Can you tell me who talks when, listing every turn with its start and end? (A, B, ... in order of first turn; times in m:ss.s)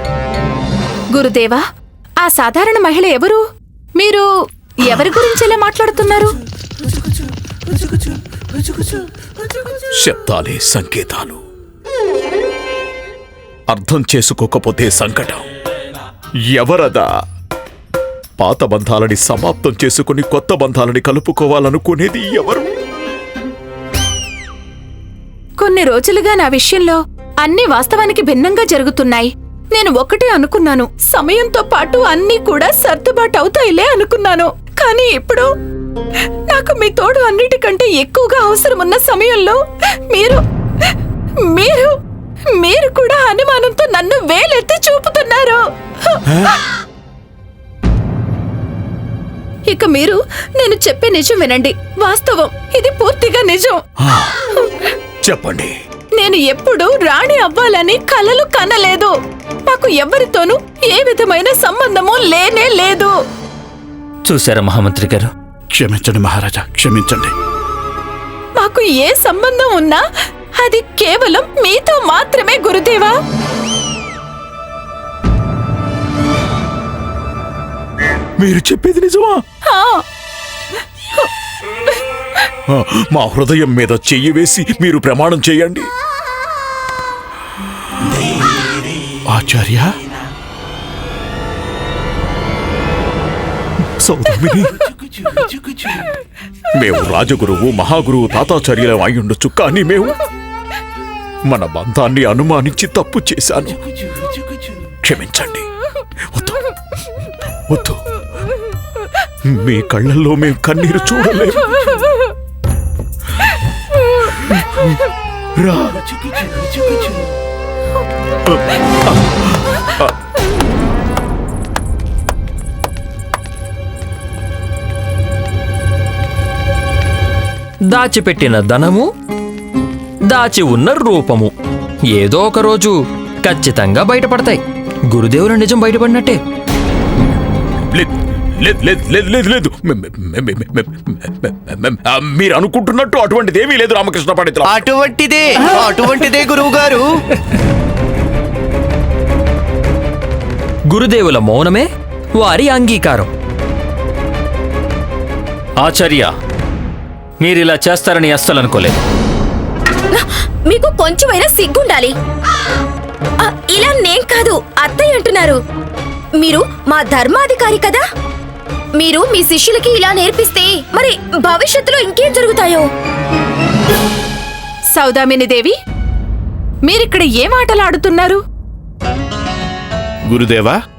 0:01.1-0:01.6 A
0:02.2-0:03.4 A
0:04.0-0:04.2 A
0:04.8-0:06.3 A
0:10.0-0:11.4 B
0:13.7-0:15.4 B
0:16.6-0:17.0 B
0:18.4-0:22.7 B
0:25.6-0:35.5 A
0:36.5-0:39.6 A
0:40.1-0:40.9 A
0:41.5-0:41.9 A
0:42.6-0:46.6 A
0:49.7-0:53.8 A
0:54.0-0:54.4 B
0:55.2-0:55.7 B
0:56.2-0:59.1 A
0:59.7-1:03.1 A
1:04.3-1:05.3 C
1:05.8-1:07.3 D
1:08.6-1:10.0 A
1:10.6-1:13.1 A
1:18.4-1:19.4 B
1:19.7-1:20.0 A
1:22.7-1:25.9 B
1:29.3-1:29.9 D
1:34.0-1:34.8 B
1:36.8-1:40.2 B
1:41.5-1:43.8 B
1:45.0-1:45.7 B
1:47.7-1:48.0 B
1:49.5-1:52.0 B
1:54.3-1:55.0 B
1:55.6-1:56.5 B
1:58.5-2:00.1 B
2:07.9-2:09.1 E
2:10.3-2:11.5 E
2:12.2-2:12.9 E
2:13.4-2:14.6 E
2:15.1-2:16.4 E
2:17.9-2:24.9 B
2:24.6-2:27.0 F
2:30.9-2:33.3 E
2:35.8-2:36.3 C
2:37.4-2:39.0 C
2:40.1-2:42.1 G
2:43.4-2:45.6 G
2:46.4-2:48.0 G
2:49.0-2:52.9 G
2:55.0-2:55.7 A
2:56.9-2:58.4 A
3:00.3-3:00.8 D